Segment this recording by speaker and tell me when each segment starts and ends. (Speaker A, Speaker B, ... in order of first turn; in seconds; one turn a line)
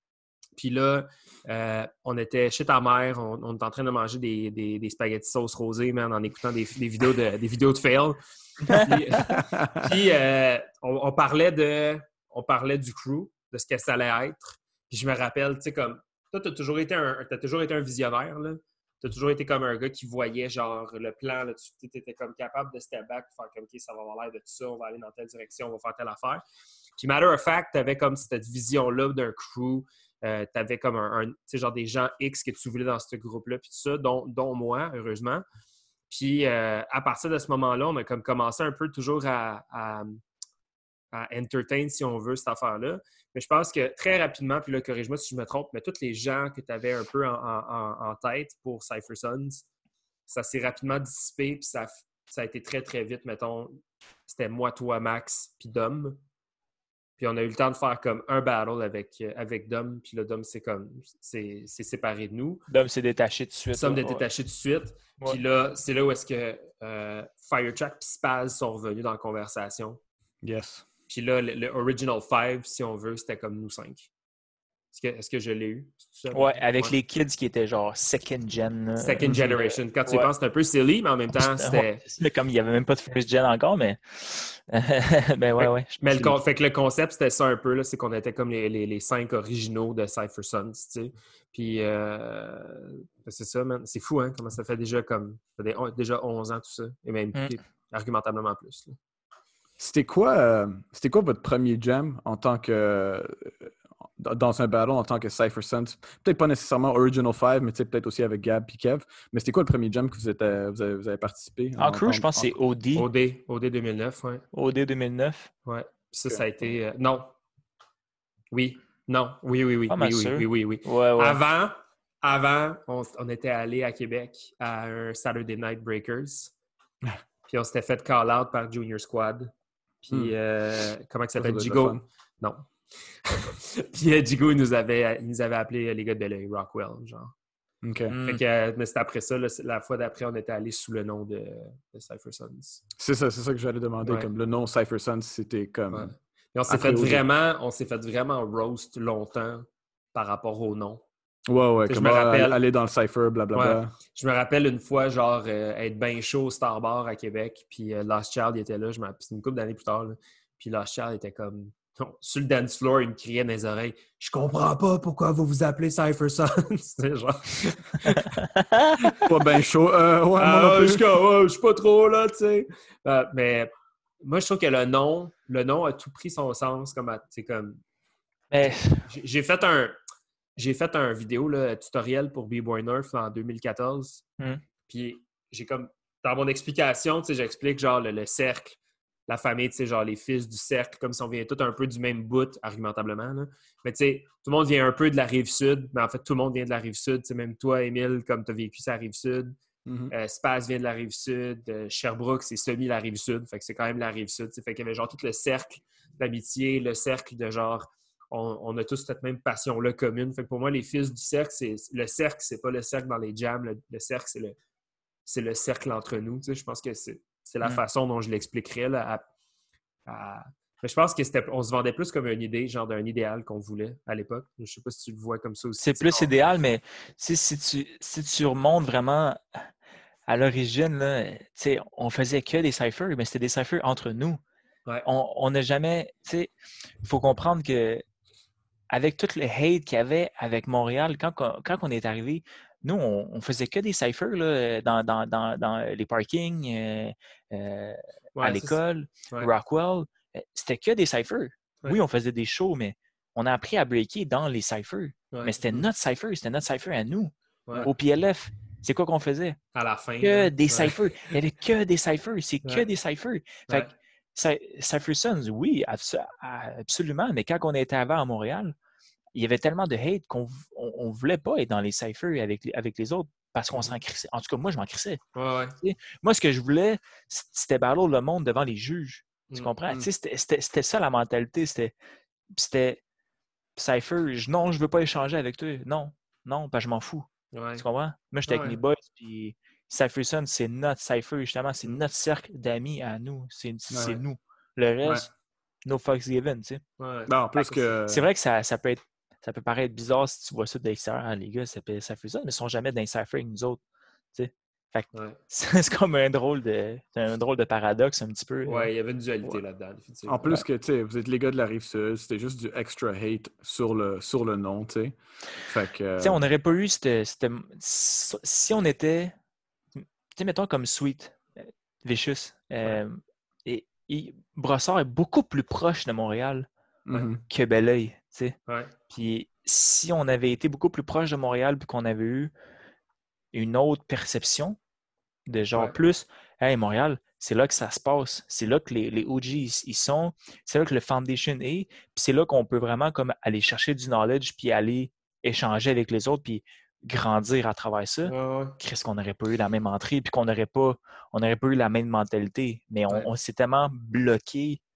Speaker A: 0.6-26.4
Speaker B: 9.3-9.8
Speaker A: 27.0-35.4
Speaker A: 36.1-40.2
Speaker A: 41.1-49.6
Speaker A: 50.3-56.2
Speaker A: 57.2-62.6
Speaker C: 62.7-64.2
Speaker A: 63.7-70.0
Speaker B: 70.4-70.8
Speaker A: 71.1-74.1
Speaker A: 74.9-76.9
Speaker C: 76.3-80.3
Speaker A: 79.0-82.0
Speaker C: 81.3-86.4
Speaker A: 85.6-99.0
Speaker B: 99.8-112.5
Speaker C: 111.8-113.1
Speaker A: 112.9-114.4
Speaker C: 114.5-115.5
Speaker A: 115.7-117.3
Speaker A: 118.5-126.5
Speaker C: 119.9-121.4
Speaker A: 127.5-129.5
Speaker A: 130.0-137.3
Speaker B: 131.4-132.0
Speaker B: 137.8-138.1
Speaker C: 138.1-138.4
Speaker A: 138.2-142.8
Speaker B: 143.0-146.1
Speaker A: 144.0-144.3
Speaker A: 145.9-151.0
Speaker B: 146.7-147.2
Speaker B: 151.5-153.9
Speaker A: 151.8-152.6
Speaker A: 153.5-168.3
Speaker C: 168.1-169.0
Speaker A: 169.0-169.3
Speaker B: 169.2-171.0
Speaker A: 170.4-173.7
Speaker A: 174.2-177.8
Speaker C: 178.5-179.1
Speaker A: 178.6-180.0
Speaker A: 180.6-184.2
Speaker A: 184.9-199.6
Speaker B: 199.8-200.1
Speaker A: 200.1-214.6
Speaker A: 215.2-219.2
Speaker A: 220.1-226.4
Speaker C: 225.8-229.7
Speaker C: 230.3-234.4
Speaker C: 235.0-236.5
Speaker C: 237.0-238.0
Speaker C: 238.9-259.6
Speaker A: 248.3-249.5
Speaker A: 255.3-255.8
Speaker A: 259.7-261.3
Speaker C: 260.2-268.7
Speaker C: 269.3-275.2
Speaker A: 275.3-275.8
Speaker C: 275.8-281.9
Speaker C: 282.5-283.0
Speaker C: 283.8-295.3
Speaker A: 287.5-287.8
Speaker A: 288.5-288.8
Speaker B: 293.9-294.2
Speaker C: 295.8-296.8
Speaker A: 297.0-297.8
Speaker B: 297.3-298.2
Speaker C: 297.6-303.8
Speaker C: 304.3-308.9
Speaker A: 305.1-305.4
Speaker A: 308.6-310.4
Speaker B: 310.3-316.4
Speaker C: 316.2-319.3
Speaker C: 319.9-326.7
Speaker B: 327.1-327.4
Speaker C: 327.5-328.6
Speaker A: 328.7-328.9
Speaker C: 329.1-332.5
Speaker C: 333.5-334.8
Speaker C: 335.5-354.8
Speaker A: 348.2-348.8